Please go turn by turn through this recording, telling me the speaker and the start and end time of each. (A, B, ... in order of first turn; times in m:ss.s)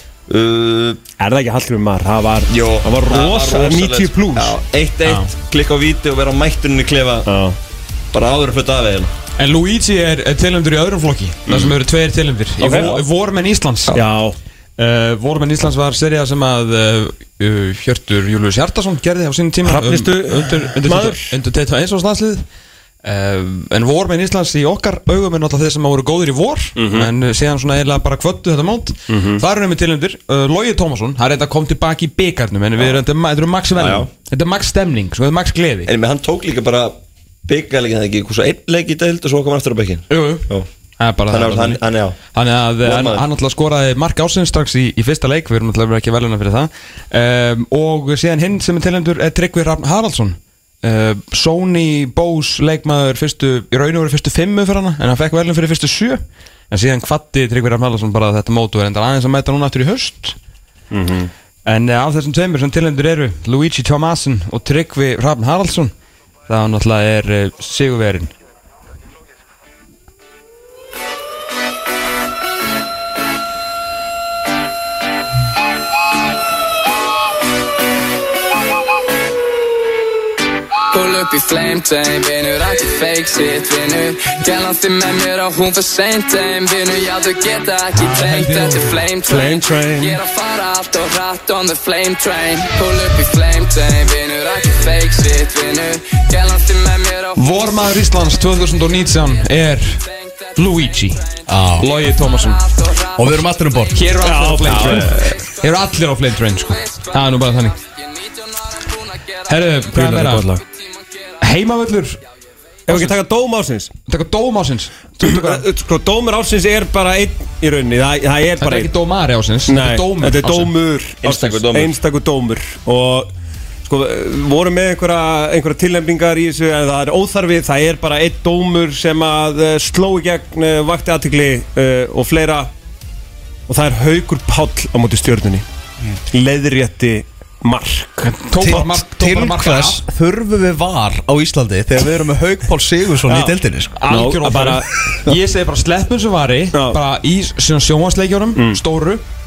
0:00.3-0:01.0 A
0:01.2-0:04.6 B
0:02.5-0:07.3 A
0:07.3-0:07.6 B
0:08.1-0:09.1 A
0:09.4-0:13.9 C
0:12.6-0:12.9 B
0:12.6-0:13.0 A
0:13.9-0:14.4 B
0:14.8-0:22.4 C
0:19.6-0:21.4 B
0:23.0-0:35.9 C
0:26.8-0:27.1 B
0:29.1-0:29.4 B
0:33.8-0:34.1 A
0:35.9-0:40.7 A
0:40.1-0:40.5 C
0:41.0-1:00.4 C
0:41.3-0:42.2 A
0:42.8-0:43.2 A
1:00.9-1:01.3 B
1:01.6-1:05.9 C
1:06.5-1:08.3 C
1:20.9-1:37.9 D
1:27.9-1:29.0 C
1:29.3-1:30.2 B
1:37.4-1:40.0 C
1:40.0-1:41.5 D
1:40.6-1:41.2 C
1:41.5-1:41.9 E
1:41.8-1:42.6 C
1:42.1-1:43.4 D
1:43.2-1:44.0 E
1:44.0-1:47.8 C
1:44.2-1:45.2 B
1:46.7-1:49.8 D
1:49.5-1:50.4 C
1:50.0-1:50.6 B
1:50.6-1:51.4 D
1:51.4-1:52.2 C
1:52.9-1:53.9 B
1:54.1-1:55.7 C
1:55.2-1:58.9 B
1:58.6-2:00.7 C
1:59.7-2:03.3 B
2:01.2-2:02.0 A
2:03.9-2:12.7 B
2:13.7-2:15.6 B
2:16.3-2:18.3 B
2:18.2-2:20.0 C
2:18.6-2:24.0 E
2:23.3-2:23.6 B
2:24.0-2:29.2 C
2:24.1-2:25.2 B
2:26.7-2:27.0 B
2:28.6-2:28.8 B